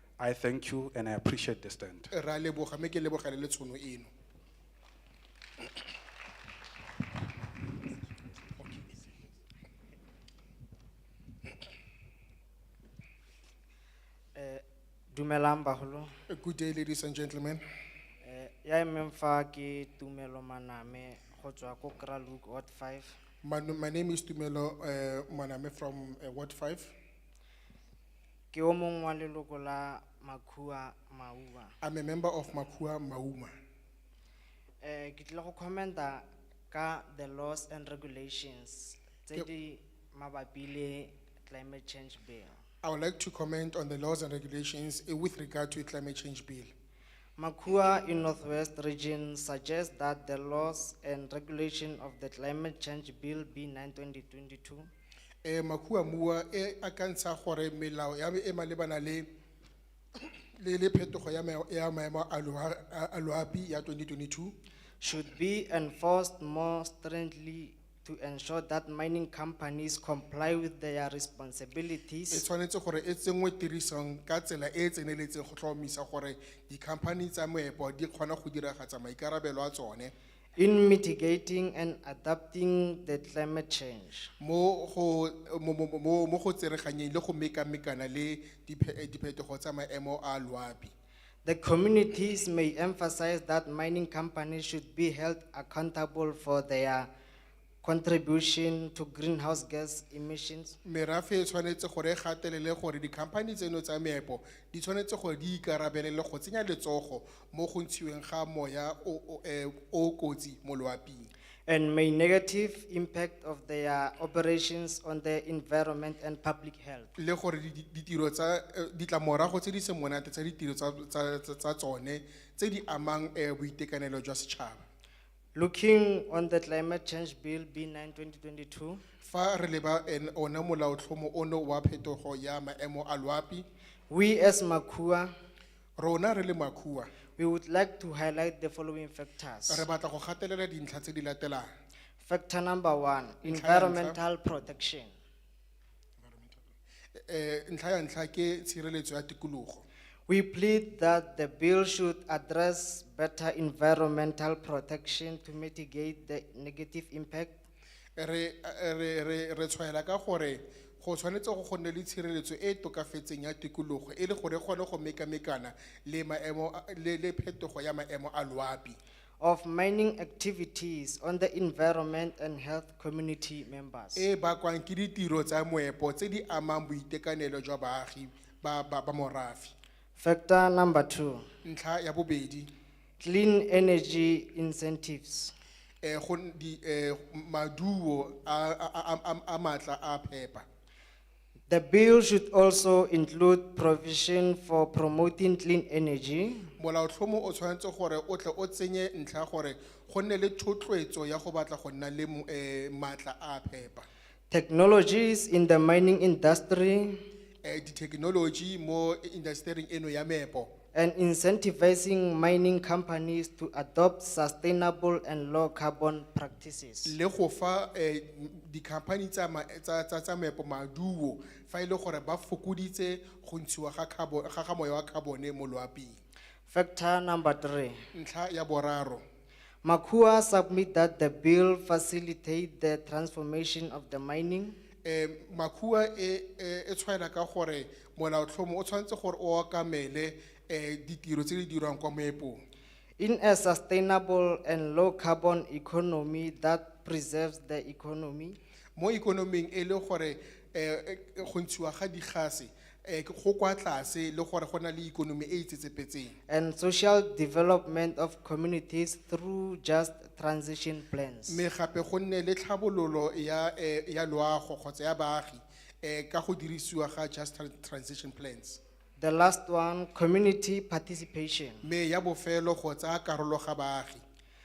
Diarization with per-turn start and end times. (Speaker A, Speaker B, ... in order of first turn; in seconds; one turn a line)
Speaker A: 0.2-2.1
Speaker B: 2.1-4.1
Speaker C: 14.3-16.1
Speaker B: 16.3-17.6
Speaker C: 18.2-23.2
Speaker B: 23.4-26.9
Speaker C: 28.5-31.8
Speaker B: 31.8-33.5
Speaker C: 34.8-42.6
Speaker B: 42.8-46.7
Speaker C: 47.4-54.9
Speaker B: 55.5-59.3
Speaker B: 60.6-64.5
Speaker C: 65.0-72.4
Speaker B: 72.3-80.1
Speaker C: 80.6-84.3
Speaker B: 84.4-90.9
Speaker C: 91.5-97.1
Speaker C: 97.8-100.8
Speaker B: 100.8-111.3
Speaker C: 111.7-117.1
Speaker B: 117.2-124.8
Speaker C: 125.5-129.0
Speaker B: 129.2-133.7
Speaker C: 134.1-135.3
Speaker B: 136.0-137.1
Speaker C: 137.4-139.9
Speaker B: 139.7-141.7
Speaker C: 142.2-145.1
Speaker B: 143.5-144.2
Speaker B: 146.2-149.8
Speaker C: 150.3-157.5
Speaker B: 158.2-169.0
Speaker C: 169.4-174.2
Speaker B: 174.2-179.7
Speaker C: 180.2-181.5
Speaker B: 181.7-182.7
Speaker C: 183.2-185.6
Speaker B: 186.0-190.7
Speaker C: 191.7-196.7
Speaker B: 196.8-204.1
Speaker C: 204.5-207.3
Speaker B: 207.6-210.7
Speaker C: 210.9-217.2
Speaker B: 217.1-226.2
Speaker C: 226.7-228.1
Speaker B: 228.1-229.2
Speaker C: 229.8-234.8
Speaker B: 235.1-242.6
Speaker C: 243.2-248.6
Speaker B: 249.0-256.4
Speaker C: 256.5-261.6
Speaker B: 261.5-268.8
Speaker C: 269.2-271.9
Speaker B: 271.8-274.2